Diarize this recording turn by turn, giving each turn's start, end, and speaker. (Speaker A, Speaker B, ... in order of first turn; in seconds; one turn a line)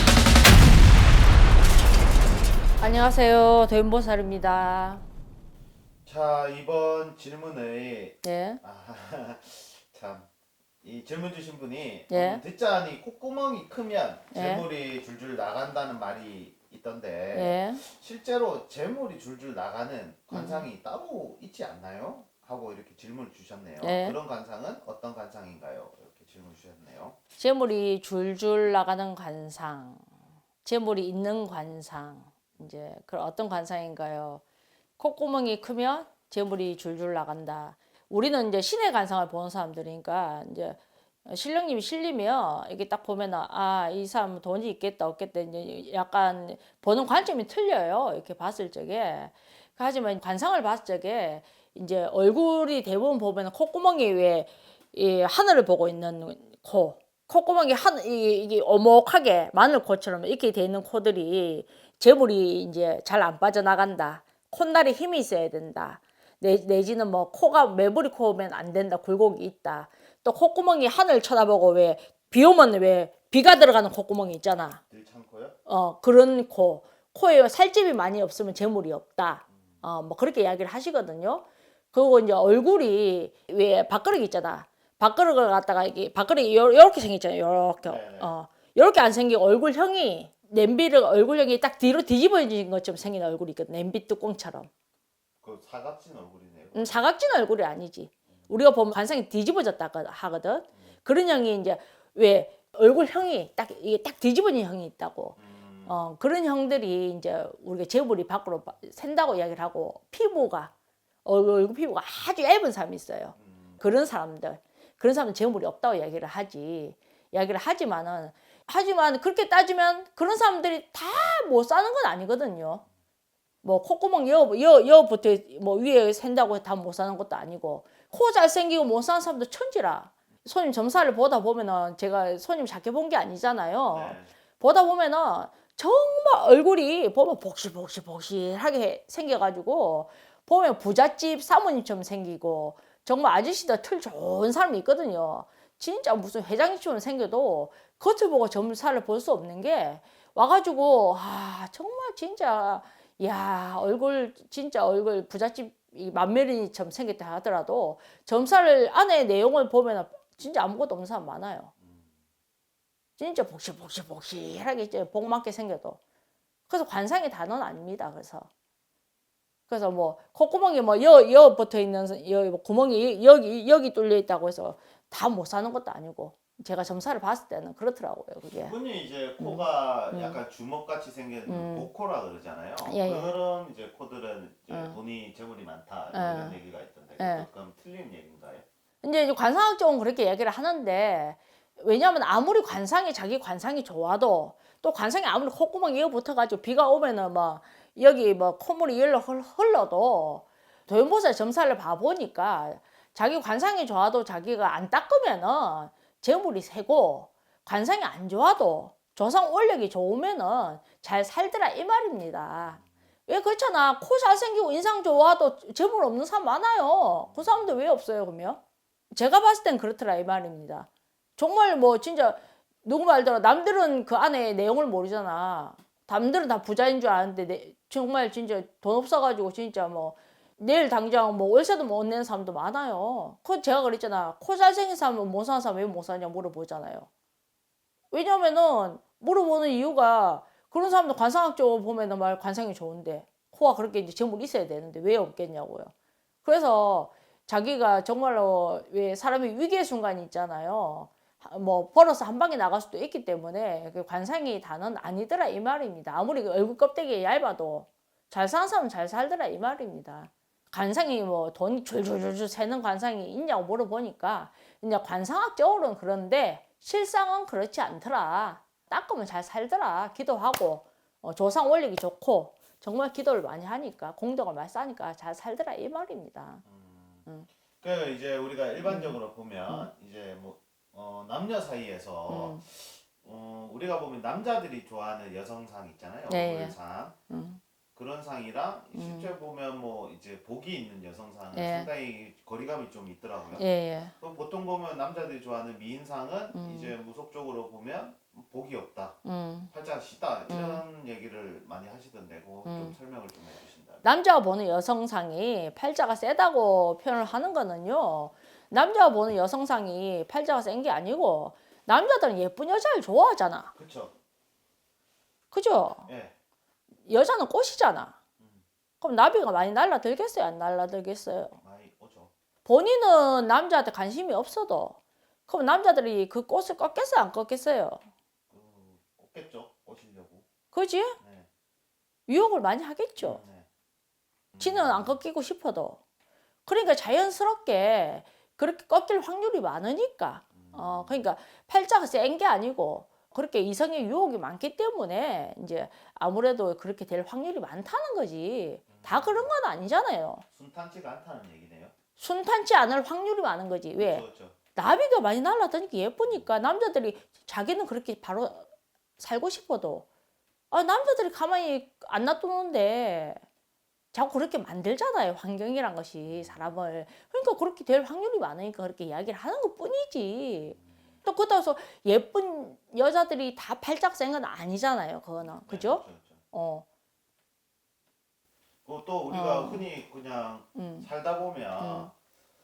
Speaker A: 2.8-5.0
Speaker B: 6.1-10.3
Speaker A: 8.2-8.6
Speaker B: 10.8-27.2
Speaker A: 12.1-12.4
Speaker A: 14.3-14.7
Speaker A: 17.3-17.8
Speaker A: 20.3-20.7
Speaker A: 23.8-24.2
Speaker A: 27.4-30.1
Speaker A: 30.6-34.4
Speaker A: 35.0-74.8
Speaker B: 74.9-75.6
Speaker A: 75.7-94.7
Speaker B: 87.8-88.3
Speaker B: 95.4-97.1
Speaker A: 96.7-110.7
Speaker B: 105.4-106.0
Speaker A: 111.2-122.8
Speaker B: 113.4-113.8
Speaker A: 123.6-161.7
Speaker B: 133.9-134.3
Speaker B: 161.8-162.1
Speaker A: 163.2-166.0
Speaker A: 166.7-168.5
Speaker A: 169.7-178.8
Speaker B: 178.6-188.7
Speaker A: 179.4-180.4
Speaker A: 181.5-181.9
Speaker A: 182.8-183.3
Speaker A: 184.7-185.0
Speaker A: 186.1-186.6
Speaker A: 187.2-187.5
Speaker A: 189.0-218.6
Speaker B: 217.2-217.7
Speaker A: 219.1-237.1
Speaker A: 238.1-245.9
Speaker A: 246.4-276.6
Speaker B: 276.6-277.3
Speaker B: 277.8-287.1
Speaker A: 278.8-279.2
Speaker A: 282.3-282.6
Speaker A: 286.3-286.8
Speaker A: 287.3-287.6
Speaker B: 288.0-293.6
Speaker A: 288.9-289.3
Speaker A: 291.5-291.9
Speaker A: 293.6-294.1
Speaker B: 294.2-299.2
Speaker A: 296.5-296.9
Speaker A: 299.2-299.7
Speaker B: 299.7-304.1
Speaker A: 300.5-300.8
Speaker A: 302.6-303.0
Speaker A: 304.0-313.7
Speaker B: 313.8-314.1
Speaker A: 315.5-316.1
Speaker B: 316.1-316.3
Speaker A: 317.1-318.1
Speaker A: 319.0-321.6
Speaker B: 321.6-322.3
Speaker A: 322.7-325.0
Speaker A: 325.5-328.0
Speaker B: 328.5-330.4
Speaker A: 330.7-331.2
Speaker B: 331.2-331.5
Speaker A: 332.3-333.4
Speaker B: 333.2-333.7
Speaker B: 334.5-335.2
Speaker A: 334.6-336.0
Speaker A: 336.7-350.4
Speaker B: 340.5-341.2
Speaker B: 348.9-349.5
Speaker B: 350.5-351.9
Speaker A: 352.2-358.7
Speaker B: 354.0-354.6
Speaker A: 359.2-360.1
Speaker A: 360.7-363.4
Speaker A: 364.1-376.9
Speaker B: 366.2-366.7
Speaker B: 375.6-376.4
Speaker B: 378.9-382.1
Speaker A: 379.3-379.9
Speaker A: 380.7-381.1
Speaker A: 381.8-382.1